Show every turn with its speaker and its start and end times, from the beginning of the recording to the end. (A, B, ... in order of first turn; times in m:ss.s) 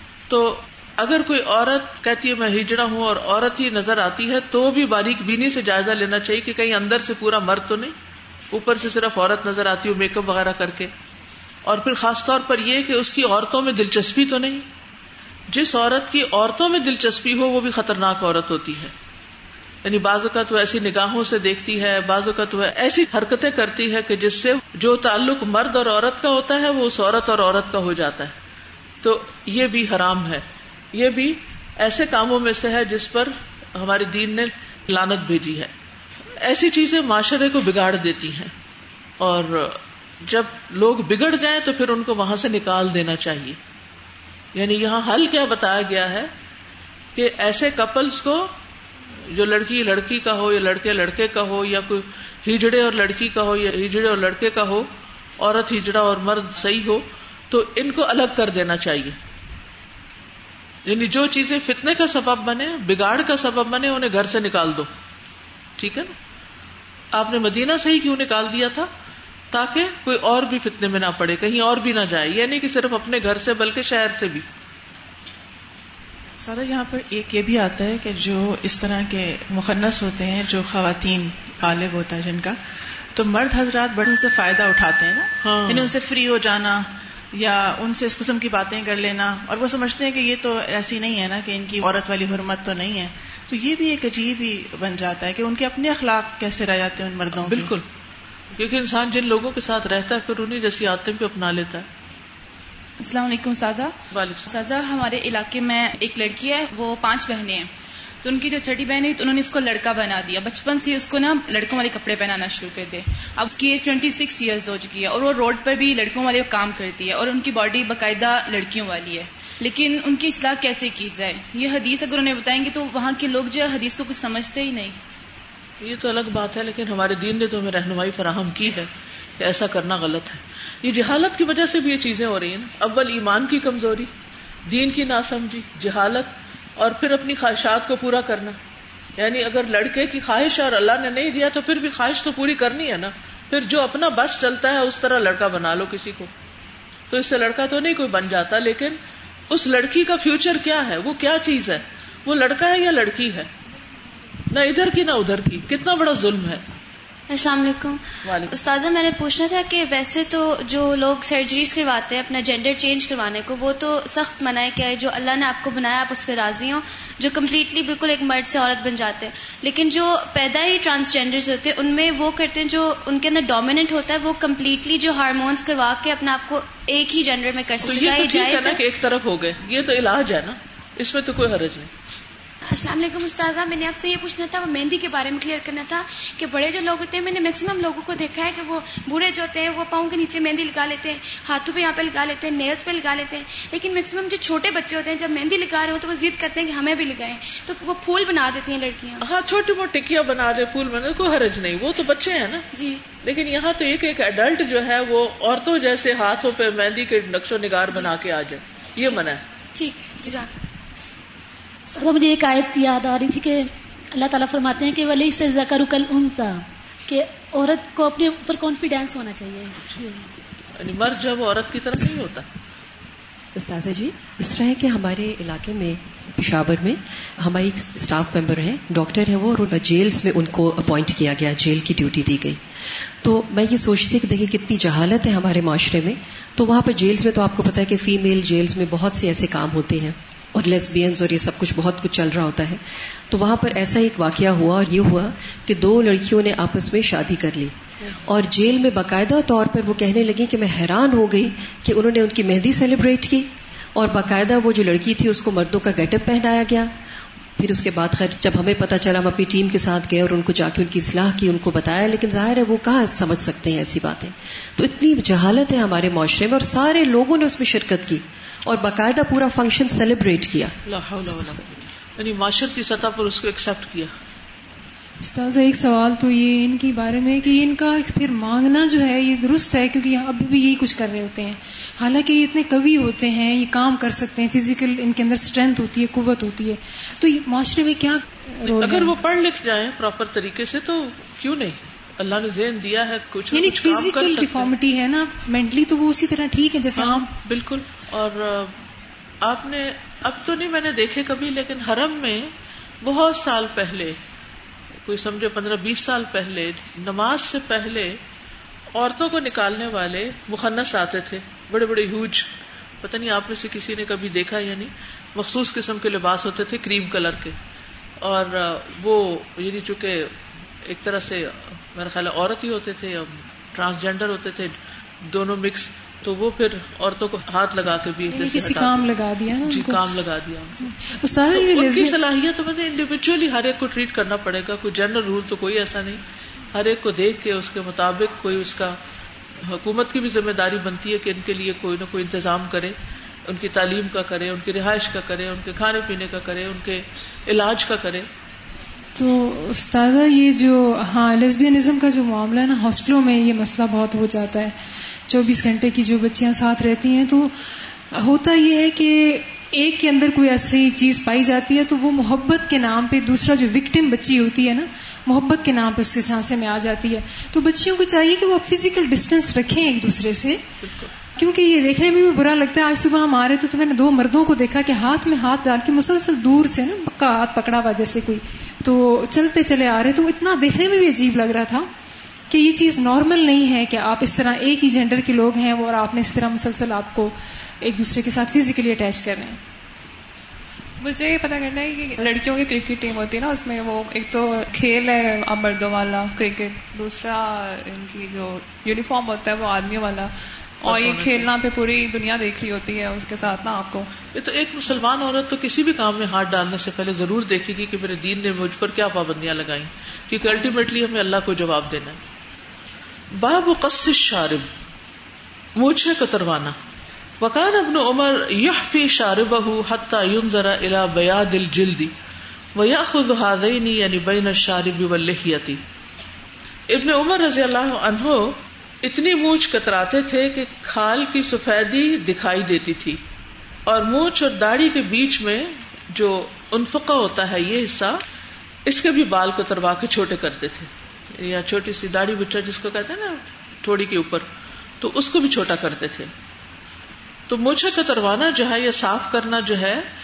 0:00.3-0:07.9 A
0:08.5-0:10.9 A
0:11.6-0:14.7 A
0:15.5-0:18.9 A
0:19.8-0:28.3 A
0:29.0-0:35.7 A
0:36.4-0:38.5 A
0:39.2-0:43.6 A
0:44.5-0:46.3 A
0:47.1-0:48.5 A
0:49.3-0:59.2 A
1:00.8-1:04.9 A
1:05.8-1:06.1 A
1:07.1-1:08.9 A
1:09.5-1:14.4 A
1:16.4-1:22.6 B
1:23.1-1:37.7 B
1:25.4-1:25.9 A
1:37.4-1:37.8 A
1:38.6-1:41.9 A
1:43.0-1:44.0 C
1:44.1-1:44.5 A
1:44.5-1:47.7 C
1:48.2-2:05.0 C
2:05.8-2:14.1 A
2:14.6-2:18.6 A
2:19.2-2:26.3 A
2:27.1-2:29.0 A
2:29.5-2:33.5 A
2:34.5-2:36.6 A
2:37.3-2:58.8 D
2:38.2-2:38.5 A
2:57.8-3:01.9 A
3:02.6-3:19.2 D
3:19.2-3:22.6 A
3:22.7-3:23.0 D
3:23.2-3:29.4 A
3:29.8-3:30.5 D
3:31.9-3:40.3 E
3:40.8-3:42.5 A
3:43.5-3:52.6 F
3:53.2-4:02.8 F
4:03.3-4:16.9 F
4:17.6-4:30.7 F
4:30.8-4:34.1 A
4:35.2-4:49.1 G
4:48.6-4:54.7 A
4:53.5-4:57.3 G
4:57.0-4:58.8 A
4:59.4-5:04.2 A
5:05.0-5:08.2 A
5:08.9-5:17.6 A
5:18.2-5:36.2 A
5:28.3-5:30.0 G
5:30.8-5:32.2 G
5:36.7-5:39.0 A
5:39.6-5:48.3 A
5:49.1-5:54.8 G
5:55.3-5:57.5 G
5:58.1-6:10.6 G
6:10.8-6:11.1 A
6:11.4-6:21.9 G
6:22.5-6:29.6 G
6:31.0-6:44.1 H
6:40.8-6:41.5 A
6:44.3-6:52.2 A
6:53.3-6:54.7 A
6:55.8-6:56.8 A
6:57.4-7:02.1 A
7:02.7-7:05.8 A
7:06.9-7:13.2 A
7:13.8-7:18.2 A
7:18.8-7:24.5 A
7:25.0-7:26.3 A
7:27.5-7:30.0 A